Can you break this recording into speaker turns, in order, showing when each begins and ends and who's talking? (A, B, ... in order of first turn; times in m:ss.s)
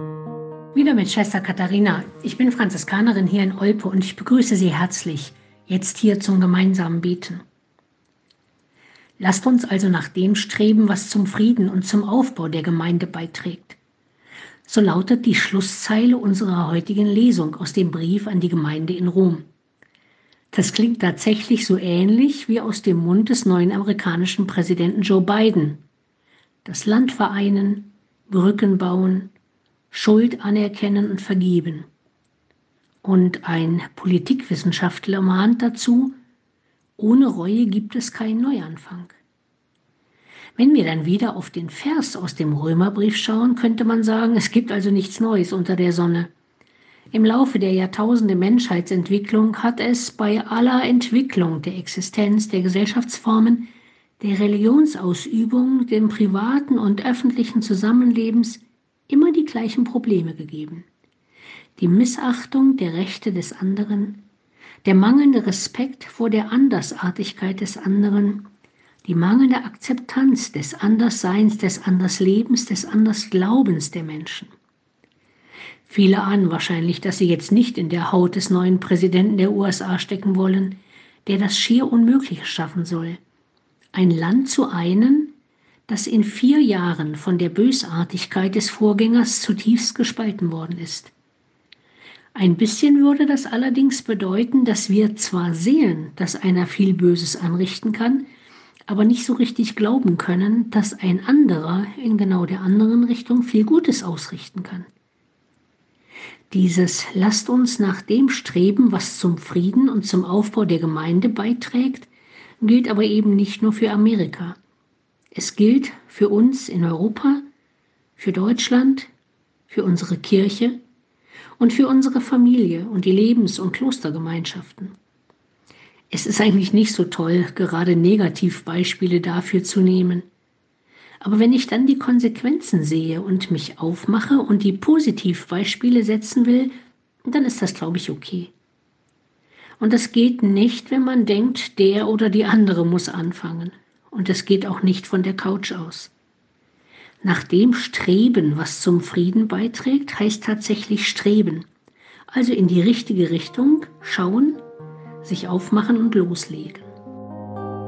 0:00.7-0:07.4 A
0:09.2-0:13.8 A
0:14.7-0:19.5 A
0:20.5-0:25.8 A
0:26.6-0:29.3 A
0:29.9-0:31.9 A
0:33.0-0:36.2 A
0:37.0-0:39.2 A
0:40.6-0:46.3 A
0:47.1-1:00.9 A
1:01.8-1:04.2 A
1:04.8-1:08.5 A
1:09.0-1:14.5 A
1:15.9-1:23.2 A
1:23.9-1:25.3 A
1:25.9-1:31.1 A
1:32.3-1:38.3 A
1:38.9-1:44.9 A
1:46.5-1:52.1 A
1:52.6-1:54.6 A
1:55.3-1:57.4 A
1:58.2-1:59.1 A
1:59.7-2:00.8 A
2:01.6-2:04.9 A
2:06.1-2:10.3 A
2:11.2-2:18.5 A
2:19.8-2:26.1 A
2:27.2-2:31.7 A
2:32.3-2:34.6 A
2:35.2-2:36.9 A